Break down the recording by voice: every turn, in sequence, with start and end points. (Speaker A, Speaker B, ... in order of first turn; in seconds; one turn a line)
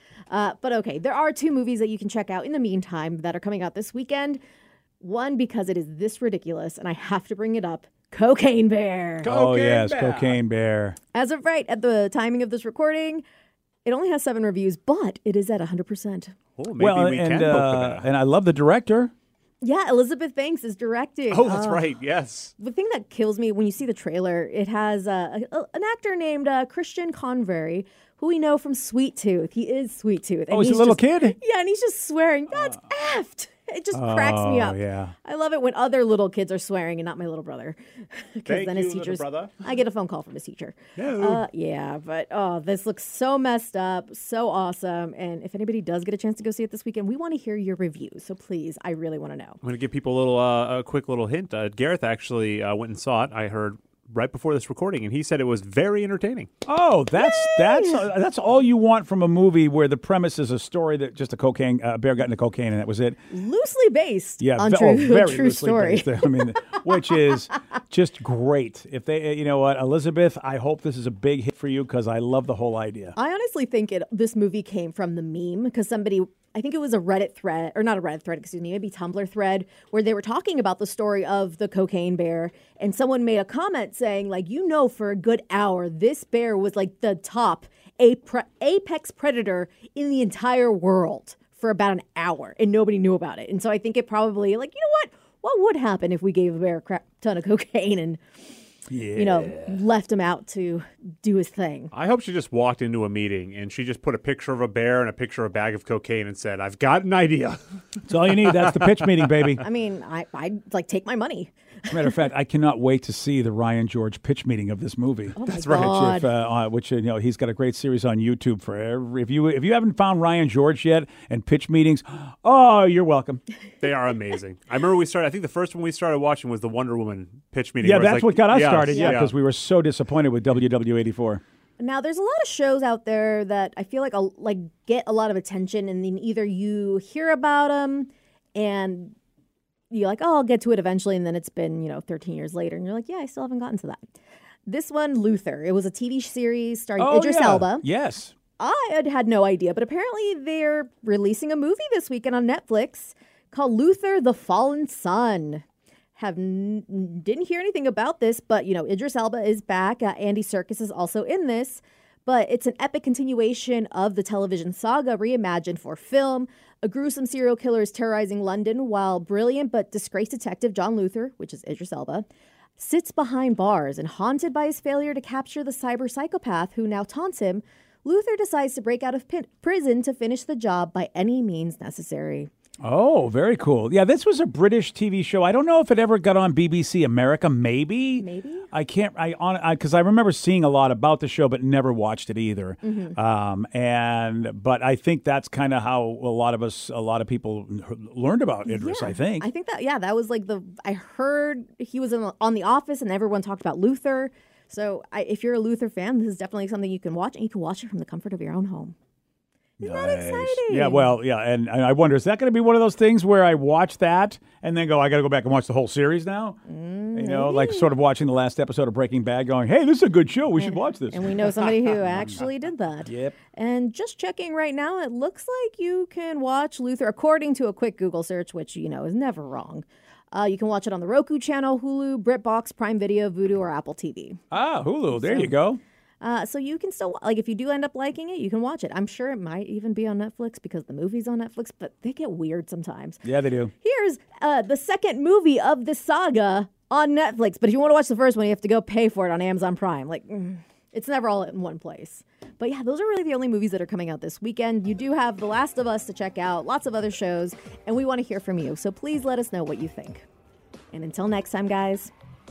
Speaker A: 0.3-4.4
Speaker A: 5.0-9.3
Speaker B: 9.2-10.4
Speaker C: 9.2-11.0
Speaker A: 11.1-13.2
Speaker A: 13.8-16.4
Speaker B: 16.6-18.0
Speaker C: 16.8-19.1
Speaker A: 19.6-21.9
Speaker B: 21.3-22.5
Speaker A: 22.6-49.6
Speaker C: 30.5-31.4
Speaker C: 32.5-32.8
Speaker C: 33.9-35.1
Speaker B: 38.5-39.5
Speaker B: 41.0-41.4
Speaker B: 49.6-56.5
Speaker C: 56.7-63.2
Speaker A: 57.2-58.0
Speaker A: 63.3-66.8
Speaker C: 64.4-73.2
Speaker A: 73.2-98.2
Speaker C: 98.9-99.8
Speaker A: 99.2-101.9
Speaker B: 101.9-107.6
Speaker C: 108.1-109.6
Speaker A: 109.6-112.1
Speaker C: 111.9-123.4
Speaker A: 115.4-116.3
Speaker B: 115.5-115.9
Speaker B: 123.8-129.3
Speaker C: 127.8-131.4
Speaker A: 131.8-139.2
Speaker A: 139.9-144.1
Speaker A: 144.7-147.8
Speaker C: 147.0-148.3
Speaker A: 148.6-155.6
Speaker A: 156.2-172.3
Speaker A: 172.8-182.5
Speaker C: 182.8-199.5
Speaker A: 188.2-188.7
Speaker A: 192.8-193.2
Speaker A: 198.7-209.0
Speaker C: 209.8-216.6
Speaker A: 209.8-211.1
Speaker A: 216.7-217.9
Speaker C: 217.1-221.5
Speaker A: 220.6-234.4
Speaker C: 223.1-223.4
Speaker C: 234.5-235.8
Speaker A: 235.1-235.5
Speaker A: 236.2-243.2
Speaker C: 243.2-243.7
Speaker A: 243.8-260.2
Speaker A: 260.9-262.1